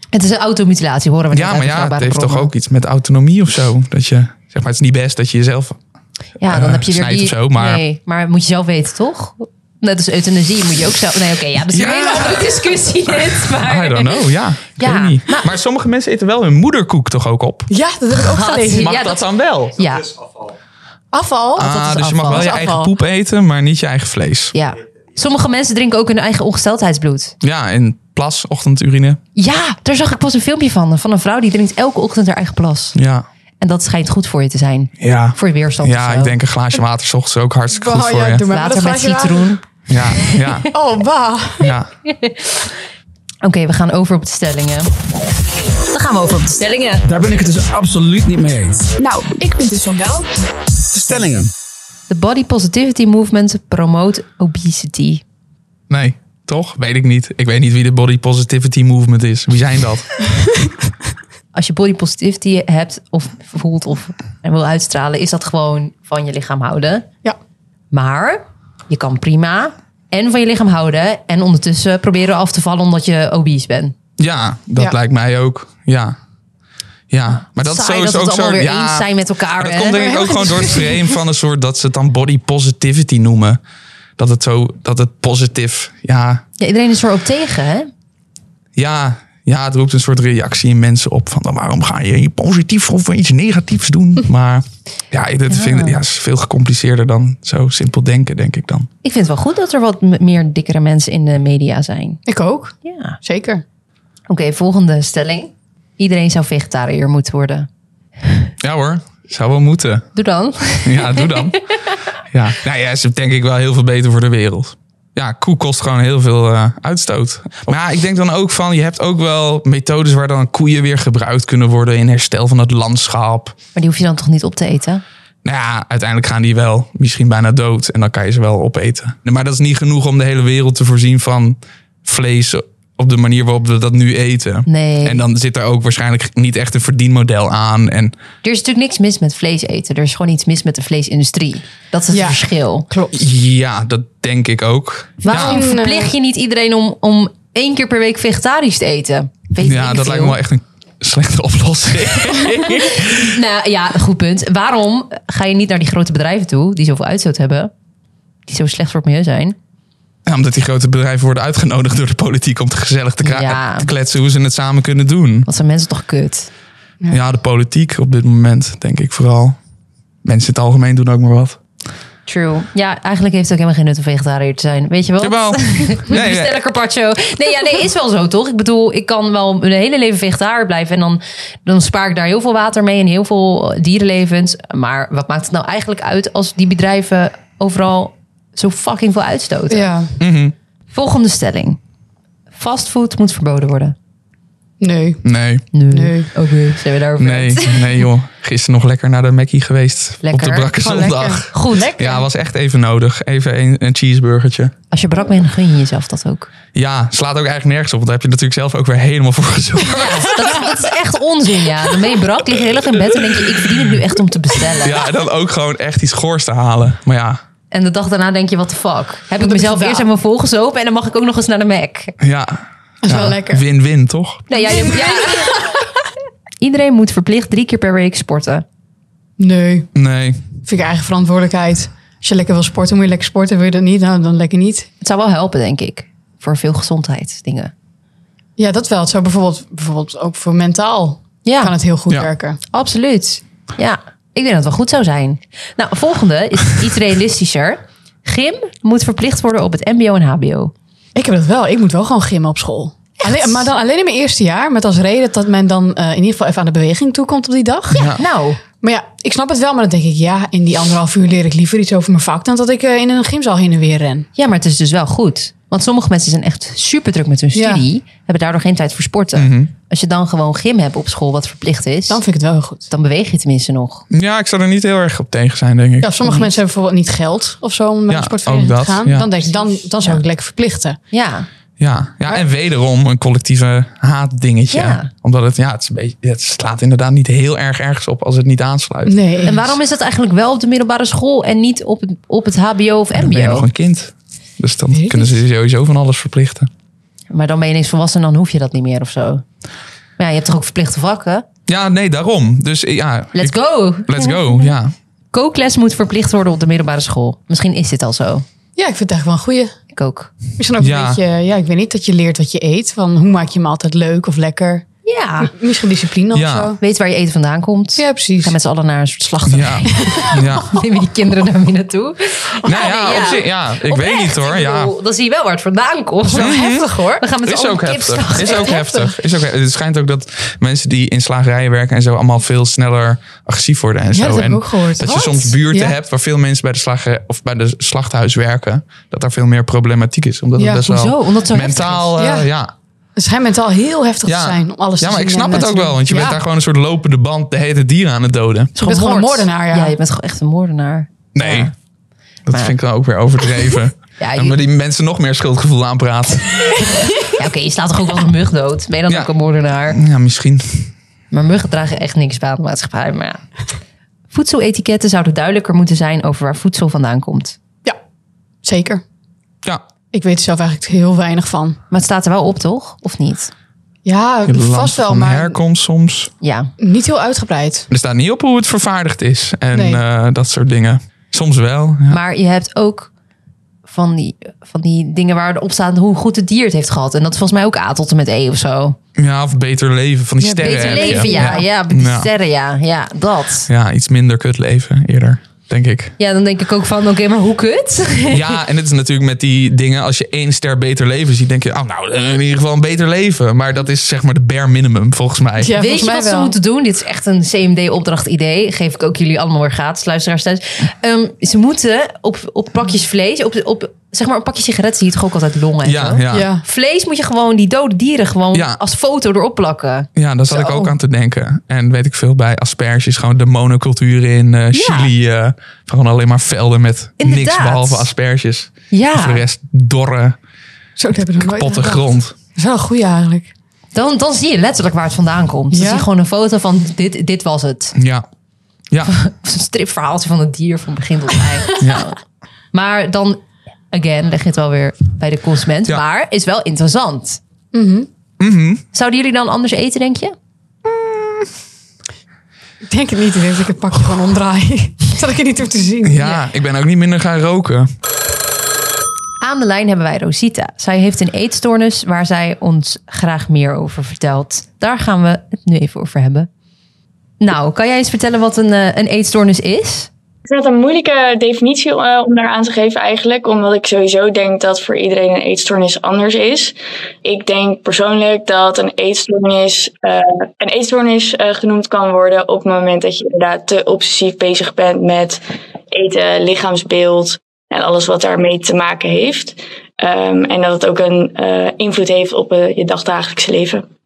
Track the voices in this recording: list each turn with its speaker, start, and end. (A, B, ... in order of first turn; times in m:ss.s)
0:00.1-0:02.5 A
0:01.3-0:05.8 B
0:06.4-0:15.5 A
0:06.5-0:07.8 B
0:11.7-0:12.6 B
0:13.1-0:17.7 B
0:17.7-0:19.0 C
0:18.1-0:19.2 A
0:18.7-0:19.8 B
0:19.8-0:20.1 A
0:19.8-0:20.6 D
0:21.1-0:22.9 C
0:21.6-0:24.6 B
0:21.6-0:22.5 A
0:24.5-0:27.3 A
0:27.4-0:29.2 B
0:29.4-0:33.0 A
0:33.0-0:33.2 B
0:33.6-0:36.4 A
0:35.0-0:38.5 B
0:37.7-0:39.6 C
0:38.5-0:39.6 A
0:39.9-0:40.7 B
0:40.2-0:40.7 A
0:40.7-0:41.7 C
0:41.6-0:41.9 B
0:42.0-0:42.7 A
0:43.4-0:44.9 A
0:45.9-0:47.0 A
0:47.0-0:49.0 D
0:49.0-0:50.3 C
0:50.9-0:51.5 D
0:52.1-0:55.2 A
0:55.9-1:00.1 B
1:01.5-1:07.1 A
1:07.9-1:14.0 A
1:14.2-1:16.2 B
1:17.1-1:23.6 B
1:17.6-1:20.5 A
1:20.0-1:21.0 C
1:24.2-1:26.4 B
1:26.6-1:27.9 A
1:28.8-1:38.9 B
1:35.5-1:36.0 A
1:39.0-1:42.2 A
1:42.3-1:43.6 C
1:42.8-1:43.2 A
1:44.3-1:47.7 A
1:48.2-1:48.5 A
1:48.6-1:50.1 B
1:50.2-1:51.6 A
1:50.8-1:51.6 B
1:52.3-2:03.6 B
2:03.8-2:05.0 A
2:05.4-2:18.2 B
2:14.7-2:15.2 A
2:18.4-2:22.9 A
2:22.1-2:23.2 C
2:23.1-2:25.6 B
2:25.2-2:26.1 C
2:25.2-2:30.4 A
2:29.6-2:33.4 B
2:32.6-2:37.7 A
2:38.5-2:39.6 A
2:40.3-2:45.5 B
2:43.2-2:43.9 A
2:45.5-2:46.5 A
2:47.1-2:49.6 B
2:50.2-2:51.6 B
2:52.3-3:09.9 A
2:55.2-2:56.6 B
3:09.7-3:10.2 C
3:10.2-3:10.6 B
3:10.9-3:11.8 A
3:12.5-3:14.0 A
3:14.8-3:15.2 C
3:15.2-3:15.6 B
3:15.7-3:18.0 A
3:15.9-3:16.3 C
3:17.2-3:24.7 B
3:20.2-3:20.7 A
3:20.8-3:22.2 C
3:21.5-3:22.1 A
3:24.9-3:26.5 A
3:26.7-3:30.7 B
3:29.9-3:35.0 A
3:34.8-3:37.4 B
3:37.7-3:42.2 A
3:39.4-3:40.1 C
3:42.2-3:44.8 B
3:43.0-3:43.6 C
3:44.5-3:45.9 A
3:44.6-3:45.8 C
3:46.6-3:48.6 A
3:49.4-3:49.9 C
3:50.0-3:50.4 B
3:50.6-3:54.9 C
3:55.0-3:57.7 A
3:58.6-4:02.6 C
4:01.4-4:01.7 A
4:02.7-4:10.7 A
4:11.2-4:18.2 C
4:13.2-4:13.5 A
4:17.9-4:18.2 B
4:18.2-4:18.6 A
4:18.8-4:24.3 C
4:24.4-4:32.2 A
4:27.6-4:27.8 C
4:29.4-4:29.7 B
4:32.1-4:32.9 C
4:32.9-4:34.0 A
4:34.1-4:36.4 B
4:36.0-4:41.0 C
4:38.1-4:39.3 B
4:41.1-4:41.5 A
4:41.8-4:49.2 B
4:44.7-4:45.1 A
4:49.1-4:49.7 C
4:49.4-4:53.7 A
4:53.1-4:56.7 B
4:54.9-4:55.3 C
4:57.3-4:59.4 A
5:00.2-5:01.5 A
5:01.7-5:04.9 B
5:03.4-5:04.7 A
5:05.3-5:08.4 A
5:08.8-5:09.7 C
5:09.9-5:10.3 A
5:10.6-5:14.9 C
5:10.8-5:11.2 B
5:15.0-5:15.5 A
5:15.4-5:16.8 C
5:16.3-5:16.8 B
5:16.8-5:28.8 A
5:18.0-5:18.6 C
5:19.5-5:20.8 B
5:20.0-5:20.3 C
5:22.6-5:23.3 C
5:22.6-5:24.9 B
5:26.3-5:27.2 C
5:26.4-5:26.9 B
5:27.4-5:42.7 B
5:28.4-5:29.1 C
5:34.1-5:35.9 C
5:40.6-5:40.9 C
5:40.8-5:42.2 A
5:42.2-5:42.5 C
5:43.2-5:46.4 C
5:44.2-5:48.7 B
5:48.8-5:51.7 A
5:48.8-5:50.0 C
5:51.4-5:51.7 B
5:52.5-5:56.8 B
5:52.5-5:52.8 A
5:54.2-5:54.6 A
5:57.2-6:00.0 A
5:59.9-6:00.9 B
6:01.3-6:03.4 A
6:04.3-6:07.6 A
6:08.6-6:09.0 C
6:10.1-6:11.8 C
6:11.9-6:13.5 A
6:14.0-6:15.6 C
6:14.4-6:16.3 B
6:16.4-6:16.7 A
6:16.8-6:17.9 C
6:17.9-6:22.2 B
6:19.7-6:20.0 C
6:22.1-6:23.1 A
6:23.9-6:29.0 A
6:29.2-6:32.3 B
6:30.4-6:31.6 C
6:30.6-6:33.7 A
6:33.7-6:36.2 B
6:36.2-6:38.6 A
6:38.3-6:45.7 B
6:45.6-6:46.6 C
6:45.8-7:00.9 A
6:55.8-6:56.5 B
6:56.3-6:56.6 C
6:58.5-6:58.8 B
7:00.2-7:10.4 B
7:04.7-7:05.1 A
7:07.2-7:08.1 A
7:08.9-7:09.4 A
7:11.0-7:12.0 C
7:11.4-7:12.3 B
7:12.6-7:13.5 C
7:13.9-7:18.0 A
7:15.7-7:16.1 C
7:18.0-7:18.2 B
7:19.0-7:22.2 A
7:21.8-7:22.1 B
7:22.7-7:27.4 A
7:27.7-7:28.1 C
7:28.4-7:28.8 B
7:28.9-7:30.4 A
7:32.8-7:36.3 C
7:36.0-7:37.9 B
7:39.4-7:46.5 A
7:47.4-7:50.1 A
7:50.4-8:05.4 E
8:05.9-8:13.8 E